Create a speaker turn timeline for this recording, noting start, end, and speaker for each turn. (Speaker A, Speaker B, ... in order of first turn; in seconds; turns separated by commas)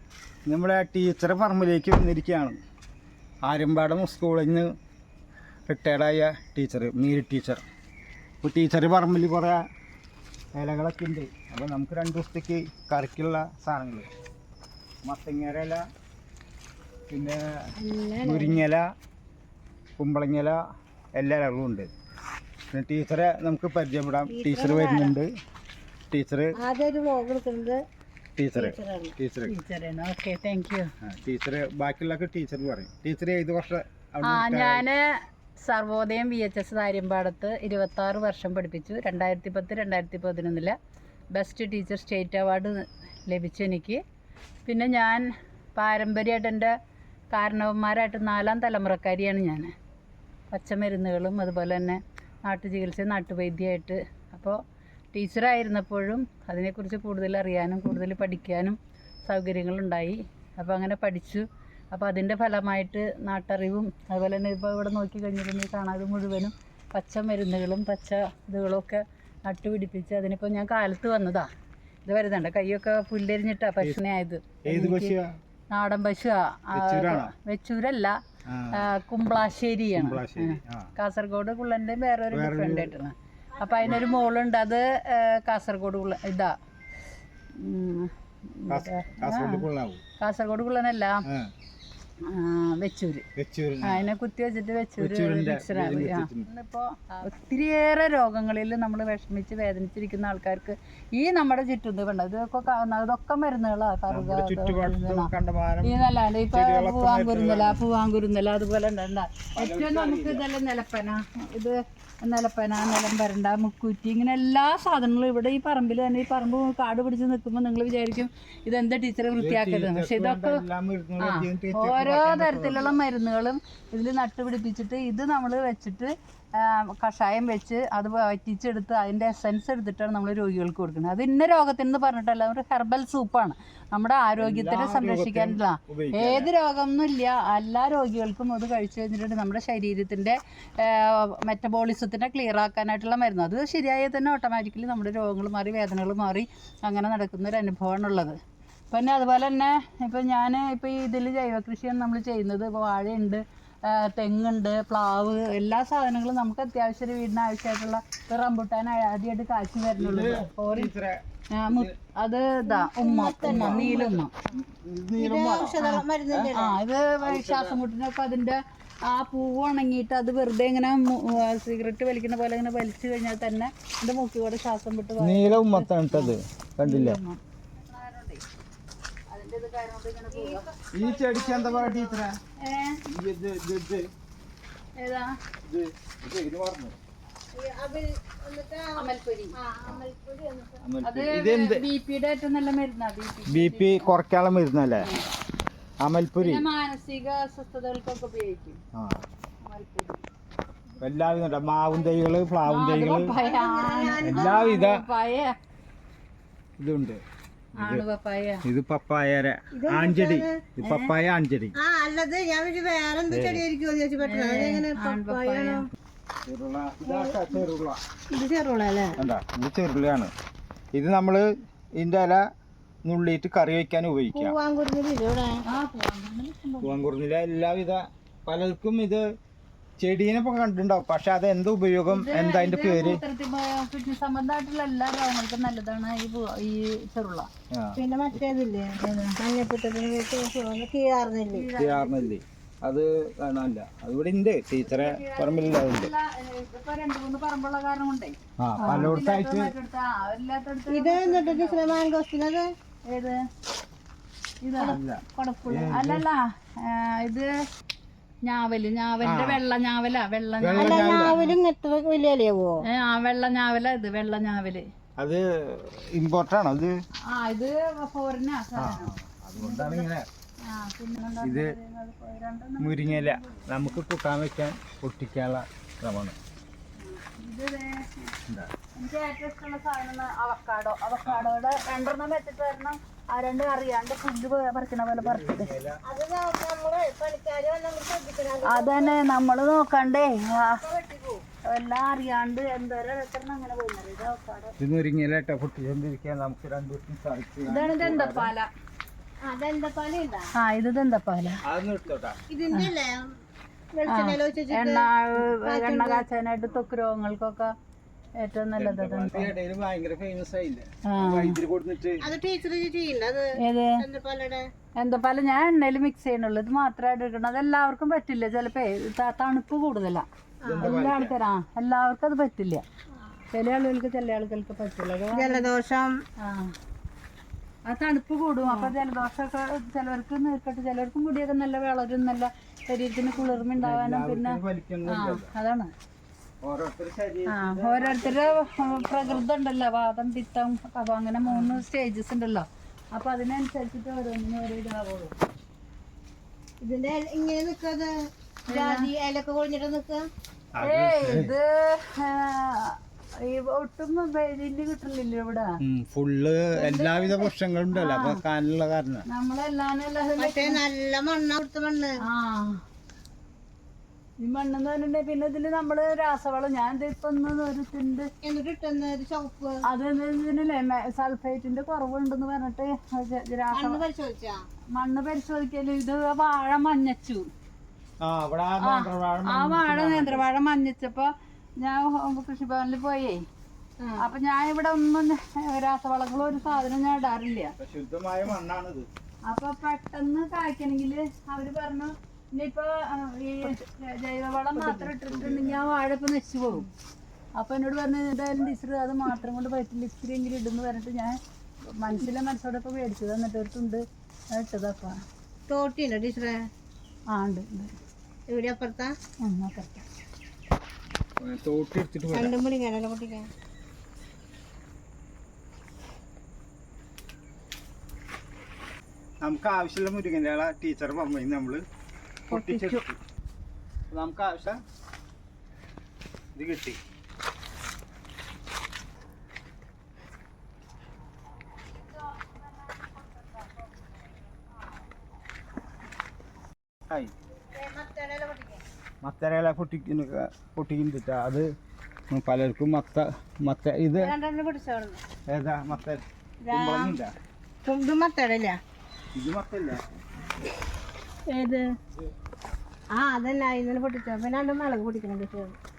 Speaker A: 0.5-2.6, Speaker A: 3.5-4.7, Speaker A: 5.7-7.6, Speaker A: 8.4-9.6, Speaker A: 10.6-14.1, Speaker A: 15.1-15.8, Speaker A: 17.1-17.7, Speaker B: 17.8-18.6, Speaker A: 18.2-18.9, Speaker A: 20.0-20.6, Speaker A: 21.2-21.9, Speaker A: 22.7-25.3, Speaker B: 24.3-25.2, Speaker A: 26.1-26.6, Speaker B: 26.6-27.8, Speaker A: 28.4-29.5, Speaker B: 28.6-29.1, Speaker C: 29.5-30.9, Speaker A: 31.0-34.8, Speaker C: 34.2-35.1, Speaker C: 35.6-40.8, Speaker C: 41.3-44.0, Speaker C: 44.7-46.7, Speaker C: 47.3-49.7, Speaker C: 50.5-54.6, Speaker C: 55.1-71.5, Speaker C: 72.0-75.2, Speaker A: 74.7-75.3, Speaker C: 75.7-78.2, Speaker A: 76.7-77.3, Speaker A: 78.5-78.9, Speaker C: 78.7-86.5, Speaker A: 79.9-80.9, Speaker A: 82.3-83.0, Speaker B: 83.5-84.3, Speaker C: 87.6-89.7, Speaker A: 88.7-90.0, Speaker C: 90.2-91.2, Speaker C: 92.2-93.2, Speaker A: 93.4-94.1, Speaker C: 93.8-105.3, Speaker A: 95.0-96.5, Speaker A: 104.1-106.0, Speaker C: 105.8-120.6, Speaker A: 106.5-107.8, Speaker A: 109.6-110.5, Speaker A: 119.3-123.0, Speaker C: 121.2-148.4, Speaker A: 134.4-136.5, Speaker C: 148.9-160.9, Speaker A: 160.0-161.9, Speaker C: 161.5-164.3, Speaker B: 162.7-164.2, Speaker A: 163.4-165.8, Speaker B: 165.2-166.8, Speaker C: 165.8-178.4, Speaker A: 167.2-167.8, Speaker A: 175.2-177.2, Speaker C: 179.3-180.7, Speaker B: 180.3-182.2, Speaker A: 180.9-182.4, Speaker C: 182.6-183.0, Speaker A: 183.1-184.1, Speaker C: 185.0-185.3, Speaker A: 185.7-187.0, Speaker B: 187.6-188.9, Speaker C: 189.0-189.5, Speaker B: 189.6-190.8, Speaker A: 190.8-191.8, Speaker C: 191.0-194.1, Speaker A: 193.5-195.1, Speaker C: 195.0-195.2, Speaker A: 196.0-196.7, Speaker C: 196.4-198.8, Speaker A: 198.9-199.2, Speaker C: 199.7-200.2, Speaker A: 201.0-203.3, Speaker C: 202.7-205.6, Speaker B: 203.4-204.6, Speaker A: 204.2-205.0, Speaker A: 206.8-207.2, Speaker A: 207.8-208.1, Speaker C: 207.8-208.6, Speaker A: 208.7-211.8, Speaker B: 209.8-210.6, Speaker C: 210.8-211.1, Speaker B: 211.8-215.8, Speaker A: 213.3-213.7, Speaker C: 214.2-215.8, Speaker A: 216.5-218.0, Speaker B: 217.0-217.7, Speaker B: 218.3-219.2, Speaker A: 219.2-220.3, Speaker A: 220.9-221.4, Speaker A: 222.0-222.4, Speaker A: 223.1-224.6, Speaker B: 224.3-225.6, Speaker C: 225.7-227.0, Speaker A: 226.8-229.2, Speaker A: 230.0-233.2, Speaker C: 232.1-237.5, Speaker A: 237.7-238.0, Speaker B: 238.0-241.7, Speaker C: 239.0-239.4, Speaker C: 241.5-242.3, Speaker A: 241.8-246.1, Speaker C: 244.8-252.0, Speaker A: 248.6-249.7, Speaker B: 250.9-252.7, Speaker C: 253.1-253.4, Speaker C: 254.6-255.0, Speaker A: 254.8-256.2, Speaker B: 254.9-255.9, Speaker C: 255.9-257.5, Speaker C: 258.4-261.6, Speaker A: 259.2-259.6, Speaker A: 260.6-261.4, Speaker B: 260.8-262.8, Speaker C: 262.9-264.9, Speaker A: 265.2-266.9, Speaker C: 267.3-270.1, Speaker A: 268.8-270.3, Speaker C: 270.6-274.0, Speaker A: 271.4-271.7, Speaker A: 272.8-276.4, Speaker C: 277.0-278.3, Speaker C: 278.9-285.7, Speaker A: 281.2-281.5, Speaker A: 285.1-286.0, Speaker B: 286.1-289.2, Speaker C: 288.6-290.8, Speaker B: 290.8-291.4, Speaker C: 291.7-294.8, Speaker A: 294.8-298.5, Speaker C: 297.7-298.7, Speaker B: 299.4-300.5, Speaker C: 300.6-301.6, Speaker A: 301.7-302.4, Speaker B: 302.5-303.2, Speaker B: 304.0-306.2, Speaker C: 304.1-307.7, Speaker C: 308.4-309.5, Speaker A: 308.8-312.3, Speaker C: 311.1-311.6, Speaker B: 312.2-313.4, Speaker C: 313.6-314.0, Speaker B: 314.0-314.6, Speaker C: 315.0-320.2, Speaker B: 320.6-320.9, Speaker A: 320.6-321.3, Speaker C: 320.8-322.8, Speaker C: 323.5-325.7, Speaker B: 325.3-326.1, Speaker C: 326.4-326.7, Speaker C: 327.9-335.9, Speaker B: 328.6-328.9, Speaker A: 333.7-335.5, Speaker A: 336.6-339.4, Speaker C: 337.5-345.4, Speaker A: 341.5-341.8, Speaker B: 346.8-348.1, Speaker B: 348.7-350.2, Speaker C: 348.7-349.1, Speaker A: 350.8-351.5, Speaker C: 350.8-355.7, Speaker A: 355.8-359.3, Speaker C: 356.8-358.4, Speaker C: 359.3-360.8, Speaker B: 360.4-362.1, Speaker C: 362.2-362.8, Speaker C: 364.4-368.3, Speaker B: 368.4-369.8, Speaker C: 369.9-374.0, Speaker B: 373.7-374.6, Speaker C: 374.9-377.4, Speaker A: 378.2-380.4, Speaker C: 378.8-383.4, Speaker B: 384.0-384.3, Speaker C: 384.2-387.7, Speaker A: 387.8-389.1, Speaker C: 389.5-396.9, Speaker B: 394.7-395.1, Speaker A: 395.3-395.9, Speaker C: 397.6-401.4, Speaker C: 401.9-405.2, Speaker B: 405.7-406.6, Speaker C: 407.3-407.9, Speaker B: 408.5-409.1, Speaker C: 409.4-410.0, Speaker A: 411.4-412.6, Speaker B: 412.3-413.5, Speaker A: 419.4-421.8, Speaker B: 422.5-423.0, Speaker A: 422.5-423.2, Speaker A: 424.1-424.8, Speaker A: 426.6-427.0, Speaker C: 432.2-434.1, Speaker B: 437.8-438.8, Speaker A: 439.2-441.7, Speaker A: 442.3-444.3, Speaker B: 444.2-445.2, Speaker A: 445.5-447.3, Speaker B: 446.6-447.2, Speaker B: 447.9-448.8, Speaker A: 449.4-450.0, Speaker B: 451.5-451.9, Speaker B: 453.1-455.8